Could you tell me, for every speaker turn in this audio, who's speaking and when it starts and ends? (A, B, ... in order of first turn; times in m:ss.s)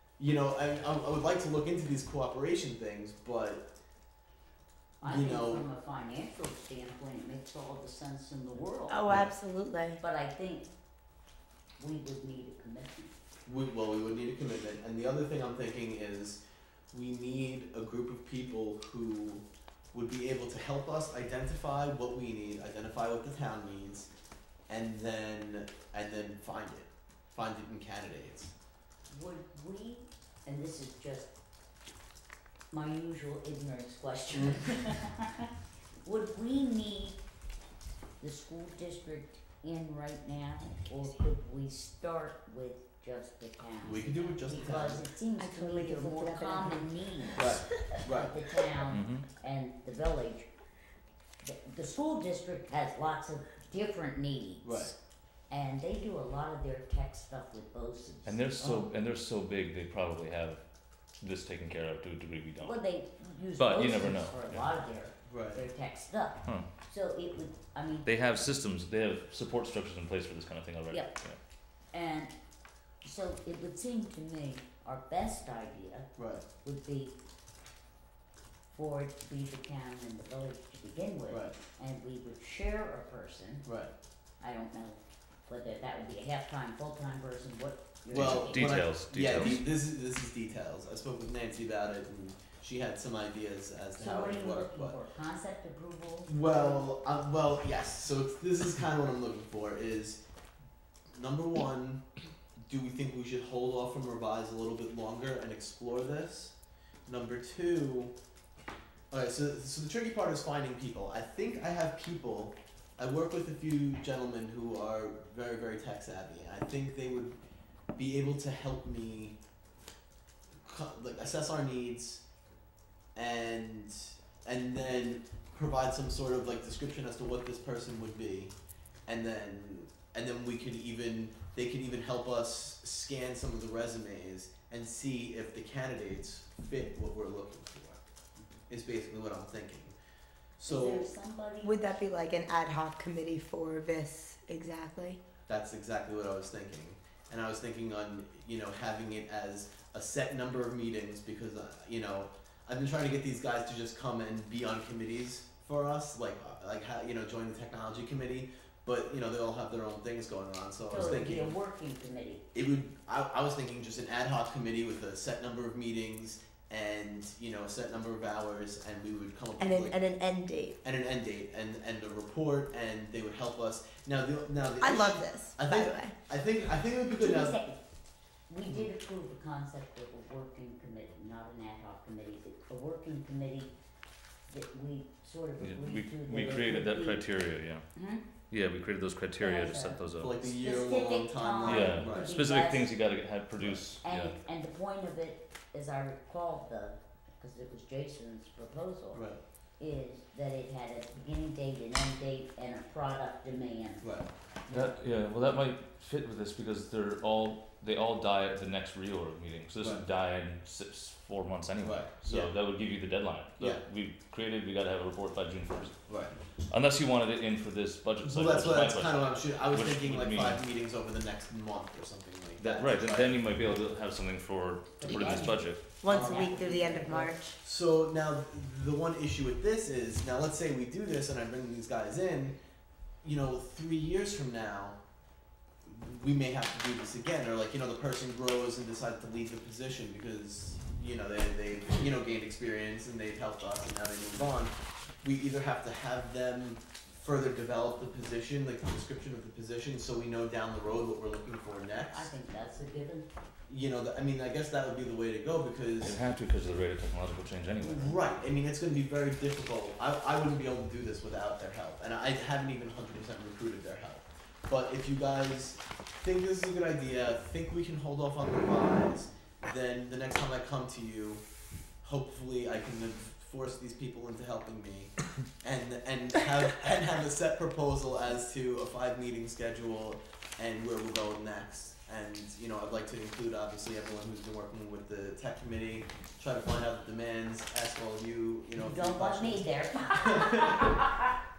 0:00.2-0:03.7 A
0:05.0-0:09.2 B
0:05.0-0:05.7 A
0:08.9-0:10.0 C
0:10.0-0:10.7 B
0:11.8-0:13.2 B
0:13.5-0:24.1 A
0:24.7-0:28.5 A
0:29.1-0:31.3 B
0:32.7-0:35.5 B
0:36.0-0:37.2 B
0:38.2-0:50.5 B
0:43.8-0:45.0 A
0:45.4-0:46.9 C
0:47.4-0:48.3 A
0:48.9-0:49.2 D
0:51.4-0:54.9 B
0:54.6-0:54.9 A
0:55.5-0:58.9 B
0:58.3-1:00.6 D
1:01.2-1:02.8 D
1:02.6-1:08.3 B
1:03.6-1:04.7 D
1:05.3-1:05.6 A
1:08.0-1:11.4 D
1:11.9-1:12.3 B
1:13.0-1:16.1 B
1:16.2-1:16.4 A
1:16.6-1:17.2 B
1:18.7-1:23.7 B
1:21.3-1:21.6 A
1:23.7-1:23.9 A
1:24.4-1:28.8 B
1:28.1-1:29.7 D
1:28.1-1:35.0 A
1:34.0-1:36.8 B
1:36.3-1:40.2 A
1:41.1-1:42.0 A
1:42.7-1:46.6 A
1:47.1-1:48.1 A
1:49.1-1:57.4 A
1:58.0-1:59.4 A
2:00.6-2:02.2 A
2:03.2-2:08.5 A
2:09.1-2:18.1 A
2:18.7-2:20.0 A
2:20.6-2:21.1 A
2:20.6-2:22.0 B
2:21.6-2:25.2 C
2:25.5-2:41.6 A
2:40.9-2:42.4 B
2:42.5-2:50.0 A
2:49.6-2:50.8 C
2:50.8-2:57.6 A
2:54.8-2:56.1 C
2:57.2-2:57.8 B
2:58.5-3:03.7 B
2:58.6-2:58.9 A
3:04.5-3:07.3 B
3:05.6-3:07.9 D
3:08.0-3:08.2 B
3:08.5-3:10.3 D
3:09.4-3:12.9 B
3:10.2-3:12.3 A
3:11.7-3:14.3 D
3:14.0-3:19.2 B
3:19.1-3:19.4 A
3:19.8-3:24.0 B
3:24.0-3:24.9 A
3:24.7-3:36.1 D
3:31.8-3:32.5 A
3:36.1-3:36.4 A
3:36.7-3:40.6 D
3:38.2-3:43.3 A
3:42.6-3:45.8 D
3:45.0-3:47.4 B
3:46.0-3:47.6 C
3:46.1-3:46.6 A
3:47.6-3:52.6 A
3:53.2-3:55.0 A
3:55.8-4:12.3 A
4:12.1-4:13.3 B
4:13.7-4:16.2 A
4:16.0-4:18.2 D
4:17.8-4:31.4 A
4:32.0-4:51.1 A
4:48.8-4:51.1 B